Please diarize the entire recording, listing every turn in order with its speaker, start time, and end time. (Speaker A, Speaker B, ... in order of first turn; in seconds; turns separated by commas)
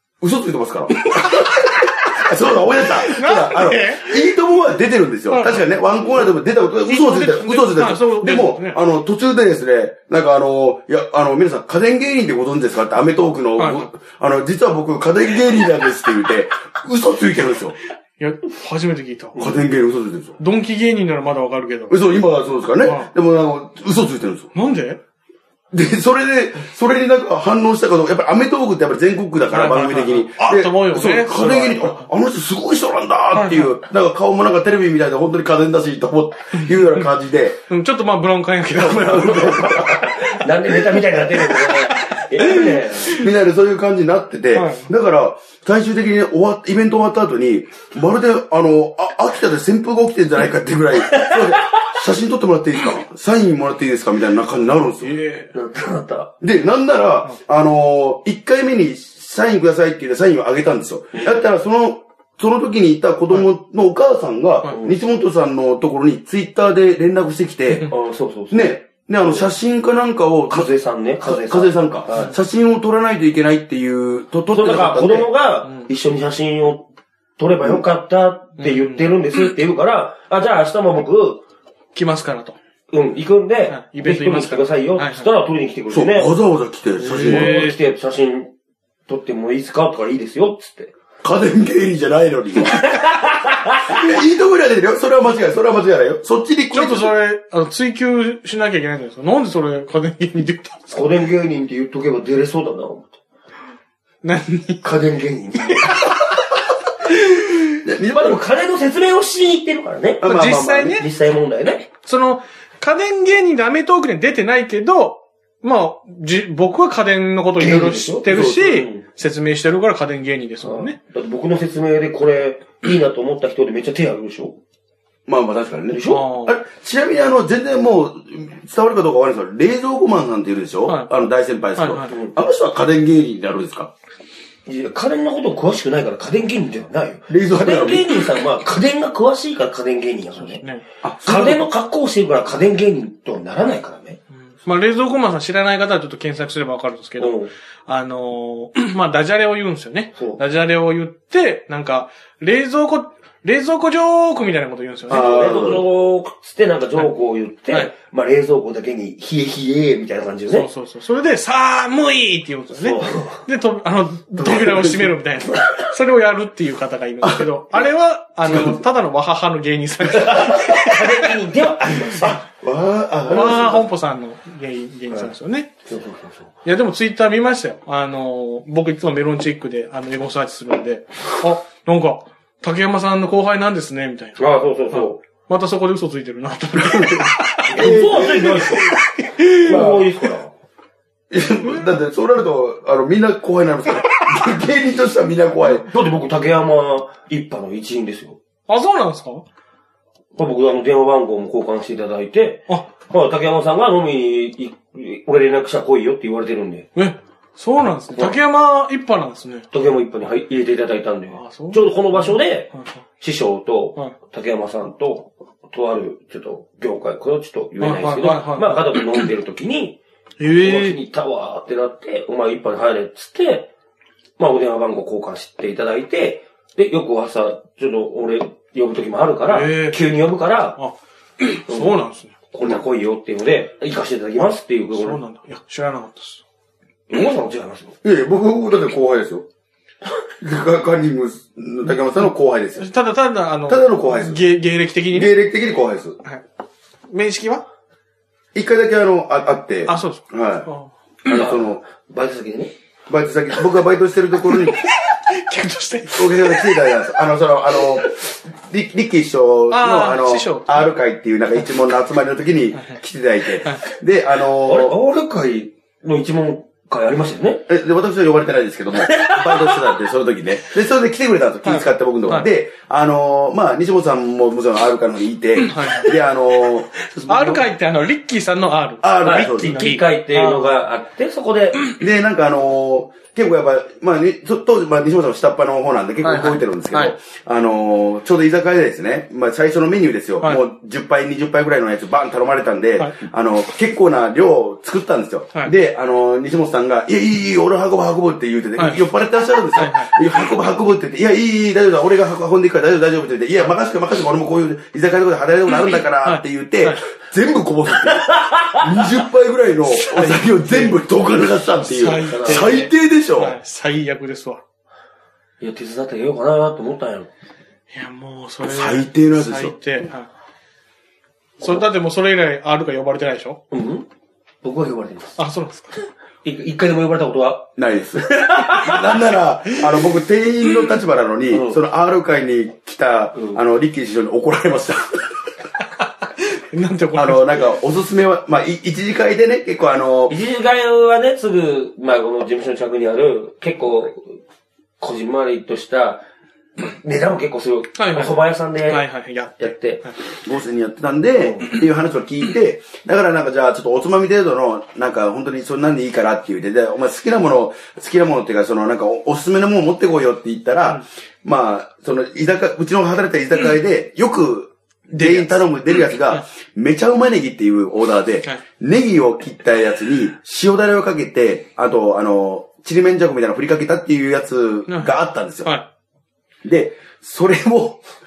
Speaker A: 0.2-17.8, Speaker B: 3.0-4.2, Speaker B: 5.3-5.6, Speaker B: 6.8-8.8, Speaker B: 13.6-13.9, Speaker B: 18.2-19.5, Speaker A: 19.4-20.4, Speaker B: 20.4-22.0, Speaker A: 21.9-24.5, Speaker B: 22.8-23.1, Speaker B: 24.5-25.0, Speaker A: 25.7-37.6, Speaker B: 29.5-32.1, Speaker B: 33.3-33.7, Speaker B: 36.7-37.1, Speaker B: 37.7-39.6, Speaker A: 38.7-41.0, Speaker C: 39.3-43.2, Speaker B: 41.5-43.3, Speaker A: 43.1-55.1, Speaker B: 44.5-44.9, Speaker C: 51.1-51.4, Speaker B: 55.0-55.5, Speaker C: 55.5-56.3, Speaker A: 56.4-67.9, Speaker C: 64.7-65.0, Speaker C: 67.8-69.5, Speaker A: 68.5-70.7, Speaker C: 70.5-72.3, Speaker A: 71.2-75.3, Speaker C: 74.5-81.4, Speaker B: 78.6-79.1, Speaker B: 81.9-82.5, Speaker C: 82.9-86.3, Speaker B: 83.7-85.3, Speaker A: 85.9-87.5, Speaker C: 87.0-88.5, Speaker B: 87.0-87.8, Speaker C: 89.1-90.9, Speaker A: 91.2-93.0, Speaker C: 92.7-94.0, Speaker A: 93.9-97.1, Speaker B: 96.7-100.9, Speaker C: 100.9-103.2, Speaker B: 104.2-105.0, Speaker C: 104.8-106.0, Speaker B: 105.6-106.4, Speaker A: 107.8-108.4, Speaker C: 108.2-111.9, Speaker A: 110.2-111.0, Speaker B: 110.2-111.1, Speaker B: 112.0-121.0, Speaker C: 117.6-119.0, Speaker A: 118.3-118.7, Speaker C: 120.6-124.6, Speaker A: 125.3-133.9, Speaker C: 125.9-126.2, Speaker B: 126.1-126.6, Speaker B: 131.8-132.1, Speaker C: 134.7-140.6, Speaker A: 137.3-138.2, Speaker B: 140.4-140.8, Speaker A: 141.0-141.7, Speaker C: 141.2-144.2, Speaker B: 144.6-155.3, Speaker C: 147.2-147.5, Speaker C: 150.1-150.4, Speaker A: 155.1-155.8, Speaker C: 155.1-160.7, Speaker B: 160.5-171.3, Speaker C: 162.7-163.4, Speaker A: 164.3-165.2, Speaker A: 167.2-167.5, Speaker A: 168.4-168.8, Speaker C: 170.2-172.4, Speaker A: 172.1-173.9, Speaker C: 173.2-173.7, Speaker B: 173.3-175.7, Speaker C: 175.8-176.5, Speaker B: 176.6-189.9, Speaker C: 184.4-185.2, Speaker A: 186.8-188.8, Speaker C: 187.7-189.0, Speaker C: 189.5-190.5, Speaker A: 189.6-190.1, Speaker A: 191.3-195.9, Speaker C: 195.7-198.4, Speaker B: 198.7-199.4, Speaker C: 200.3-206.9, Speaker B: 206.9-209.7, Speaker C: 208.1-208.4, Speaker C: 209.7-223.7, Speaker B: 211.3-213.0, Speaker B: 217.8-219.3, Speaker B: 220.4-221.0, Speaker C: 224.4-230.8, Speaker B: 229.5-230.0, Speaker B: 230.8-232.3, Speaker C: 231.7-235.2, Speaker B: 234.9-236.4, Speaker C: 237.1-237.9, Speaker A: 238.0-239.4, Speaker A: 240.4-242.8, Speaker B: 242.2-245.4, Speaker A: 243.7-244.5, Speaker A: 245.1-246.2, Speaker B: 247.1-247.6, Speaker A: 248.5-250.7, Speaker B: 249.9-250.9, Speaker A: 251.2-251.8, Speaker C: 251.2-252.7, Speaker A: 253.1-254.8, Speaker B: 254.5-256.9, Speaker A: 256.1-264.9, Speaker B: 259.7-260.9, Speaker B: 262.7-263.0, Speaker B: 263.6-263.8, Speaker C: 264.6-267.7, Speaker A: 267.7-277.7, Speaker C: 269.0-269.9, Speaker B: 271.6-272.5, Speaker B: 275.6-276.1, Speaker B: 277.3-280.7, Speaker A: 279.0-279.8, Speaker C: 279.2-281.8, Speaker A: 282.0-313.6, Speaker B: 286.2-287.1, Speaker B: 298.8-299.1, Speaker B: 299.7-300.1, Speaker B: 306.2-307.0, Speaker C: 308.3-308.7, Speaker B: 309.9-311.0, Speaker B: 311.9-314.6, Speaker C: 312.2-312.9, Speaker C: 315.6-317.3, Speaker B: 317.9-320.3, Speaker A: 318.6-319.8, Speaker B: 321.6-323.6, Speaker C: 323.7-324.1, Speaker C: 324.6-325.4, Speaker B: 325.4-325.9, Speaker C: 326.4-327.7, Speaker A: 327.8-335.4, Speaker C: 328.3-329.3, Speaker C: 331.5-331.8, Speaker C: 333.3-333.6, Speaker B: 336.5-337.6, Speaker A: 337.1-340.3, Speaker C: 340.3-344.4, Speaker C: 345.0-346.2, Speaker C: 346.8-349.0, Speaker B: 347.9-350.1, Speaker C: 349.6-350.0, Speaker A: 350.4-375.7, Speaker C: 351.4-351.7, Speaker B: 365.1-366.4, Speaker B: 374.9-375.9, Speaker A: 376.6-378.0